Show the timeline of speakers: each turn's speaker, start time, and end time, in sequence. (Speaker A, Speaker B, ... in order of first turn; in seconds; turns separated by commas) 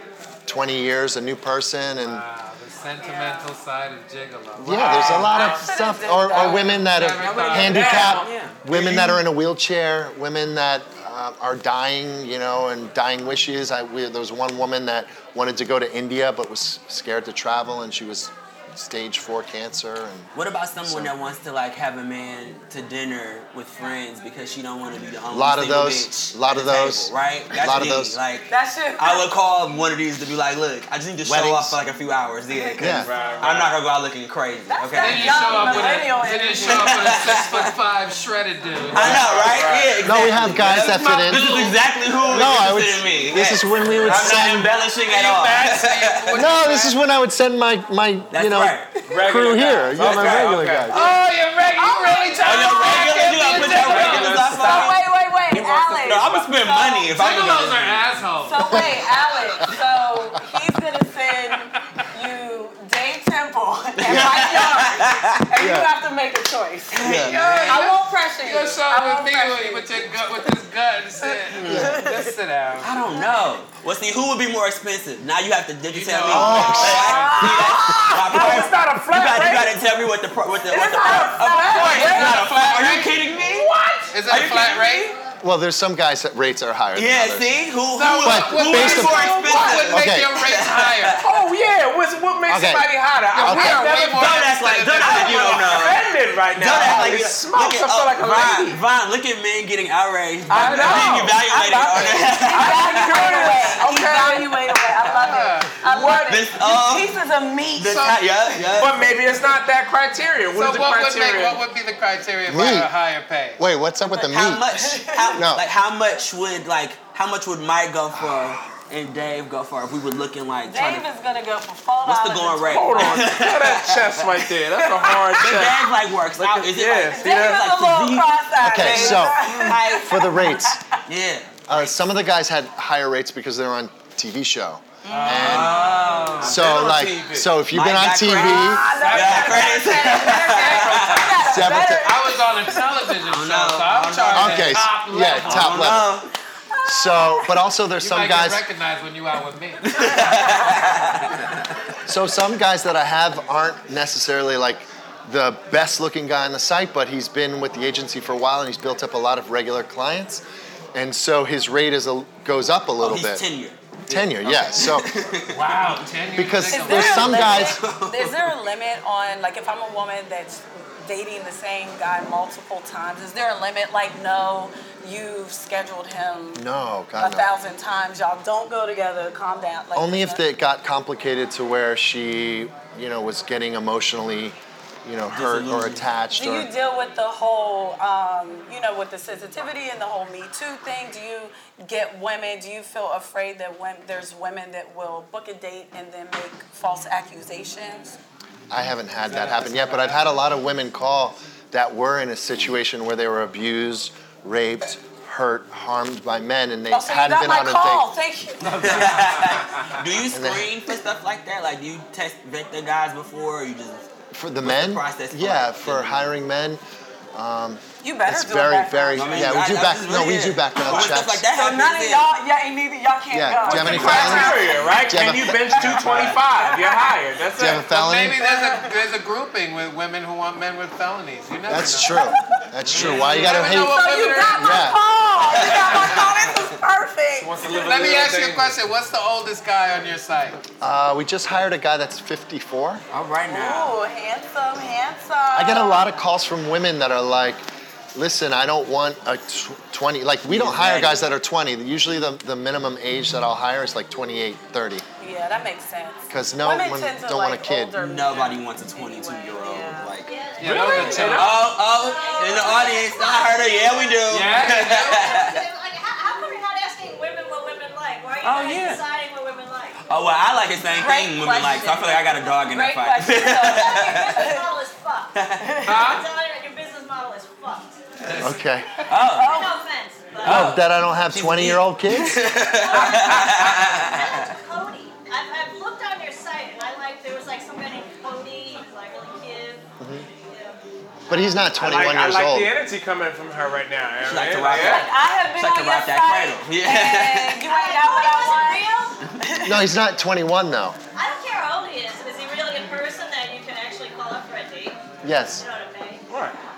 Speaker A: 0.5-2.2, Speaker B: 2.0-5.6, Speaker C: 3.0-3.5, Speaker A: 4.6-20.3, Speaker D: 4.7-5.6, Speaker C: 5.1-6.8, Speaker B: 6.5-8.1, Speaker D: 7.2-9.2, Speaker E: 8.0-8.6, Speaker E: 20.3-36.1, Speaker A: 20.8-21.1, Speaker A: 25.3-28.2, Speaker C: 28.5-29.3, Speaker A: 31.2-31.8, Speaker A: 32.8-33.1, Speaker D: 33.0-33.8, Speaker C: 34.7-37.4, Speaker B: 35.0-39.5, Speaker E: 36.6-37.8, Speaker D: 38.9-40.0, Speaker E: 38.9-46.4, Speaker A: 40.0-41.6, Speaker C: 41.1-41.8, Speaker A: 42.3-44.7, Speaker D: 44.0-46.5, Speaker B: 45.1-46.9, Speaker A: 46.3-51.1, Speaker E: 48.3-49.1, Speaker D: 49.1-51.1, Speaker E: 50.1-50.4, Speaker B: 50.9-54.5, Speaker C: 51.8-53.1, Speaker E: 52.4-55.0, Speaker D: 52.6-56.5, Speaker C: 54.0-57.2, Speaker E: 56.0-58.1, Speaker B: 57.1-58.9, Speaker C: 58.4-69.9, Speaker E: 64.0-65.4, Speaker A: 65.6-65.9, Speaker E: 67.0-67.8, Speaker A: 67.1-67.4, Speaker B: 67.1-73.0, Speaker D: 67.3-67.8, Speaker C: 71.2-72.3, Speaker E: 71.6-71.9, Speaker E: 72.8-83.7, Speaker B: 75.9-77.6, Speaker A: 76.3-77.1, Speaker C: 76.3-78.7, Speaker D: 76.8-79.8, Speaker C: 80.7-82.4, Speaker D: 80.7-84.7, Speaker B: 82.0-83.2, Speaker B: 84.1-85.1, Speaker E: 84.3-85.1, Speaker A: 85.4-87.5, Speaker E: 87.0-91.2, Speaker B: 87.9-91.2, Speaker A: 88.2-89.3, Speaker D: 89.2-89.9, Speaker A: 89.9-90.4, Speaker D: 91.2-98.8, Speaker A: 92.5-93.8, Speaker B: 93.3-95.9, Speaker E: 94.1-103.8, Speaker B: 100.5-101.4, Speaker D: 100.5-104.5, Speaker C: 102.1-108.2, Speaker B: 105.1-105.8, Speaker D: 105.8-106.4, Speaker E: 106.3-107.1, Speaker E: 107.8-109.1, Speaker D: 108.7-111.6, Speaker B: 110.5-113.6, Speaker A: 112.5-112.9, Speaker A: 113.6-114.7, Speaker C: 114.1-115.4, Speaker E: 114.3-121.1, Speaker A: 115.3-115.7, Speaker A: 118.1-118.6, Speaker C: 120.7-123.3, Speaker E: 122.0-124.5, Speaker D: 122.7-127.6, Speaker E: 125.3-130.3, Speaker C: 127.1-131.0, Speaker A: 128.6-129.5, Speaker A: 130.0-130.8, Speaker E: 131.1-131.5, Speaker A: 131.7-135.8, Speaker E: 135.0-136.8, Speaker B: 135.1-136.5, Speaker D: 135.5-137.5, Speaker C: 135.5-136.3, Speaker A: 136.4-138.8, Speaker E: 137.7-141.4, Speaker C: 138.4-142.8, Speaker B: 138.8-145.9, Speaker A: 141.5-142.1, Speaker E: 143.2-146.3, Speaker A: 144.3-146.1, Speaker C: 146.7-147.6, Speaker A: 146.8-148.6, Speaker B: 148.0-150.8, Speaker E: 149.8-151.6, Speaker A: 152.1-160.4, Speaker A: 160.9-163.4, Speaker E: 163.0-165.9, Speaker A: 164.1-165.1, Speaker B: 165.5-167.7, Speaker A: 166.3-167.8, Speaker C: 166.6-176.6, Speaker E: 167.2-168.5, Speaker A: 176.6-177.5, Speaker C: 177.2-180.4, Speaker A: 179.9-186.7, Speaker E: 185.3-186.1, Speaker C: 186.3-198.2, Speaker A: 198.7-208.1, Speaker B: 199.3-200.2, Speaker C: 206.9-209.1, Speaker B: 208.6-209.7, Speaker E: 208.7-214.1, Speaker A: 210.3-210.7, Speaker A: 214.3-216.8, Speaker E: 214.6-216.3, Speaker A: 217.3-221.4, Speaker C: 218.0-219.7, Speaker E: 219.2-222.3, Speaker C: 221.5-224.8, Speaker A: 223.3-225.6, Speaker D: 223.7-227.9, Speaker E: 224.0-226.4, Speaker C: 226.5-227.2, Speaker A: 227.6-228.4, Speaker B: 227.8-232.3, Speaker C: 228.4-229.0, Speaker A: 231.7-234.0, Speaker C: 232.1-232.4, Speaker E: 232.8-233.4, Speaker B: 232.9-234.9, Speaker D: 233.0-234.5, Speaker C: 233.4-237.5, Speaker A: 234.6-235.0, Speaker E: 235.5-236.3, Speaker B: 235.9-236.2, Speaker D: 237.4-238.7, Speaker B: 237.7-240.6, Speaker A: 240.8-243.0, Speaker E: 243.1-244.0, Speaker C: 243.5-246.1, Speaker A: 245.5-247.6, Speaker A: 248.2-255.0, Speaker E: 250.5-251.3, Speaker C: 255.2-260.1, Speaker A: 256.3-258.0, Speaker E: 258.0-265.7, Speaker F: 260.2-270.0, Speaker B: 260.6-261.7, Speaker D: 260.6-261.7, Speaker C: 262.4-262.7, Speaker B: 264.3-265.3, Speaker E: 268.4-269.0, Speaker E: 270.1-274.5, Speaker C: 270.9-274.7, Speaker F: 273.5-278.0, Speaker E: 275.4-275.7, Speaker C: 275.6-276.2, Speaker B: 275.9-276.2, Speaker B: 278.2-278.6, Speaker A: 278.4-278.9, Speaker E: 279.1-279.6, Speaker C: 279.3-279.8, Speaker F: 279.4-280.8, Speaker A: 280.4-282.4, Speaker E: 280.4-284.5, Speaker F: 282.6-289.9, Speaker D: 283.0-283.9, Speaker A: 290.0-290.2, Speaker F: 290.5-290.8, Speaker A: 291.3-292.7, Speaker D: 291.8-295.1, Speaker E: 294.2-297.6, Speaker C: 294.7-299.9, Speaker F: 297.6-299.2, Speaker A: 299.6-301.0, Speaker F: 301.2-305.0, Speaker A: 305.2-305.6, Speaker F: 305.5-306.2, Speaker D: 306.3-306.6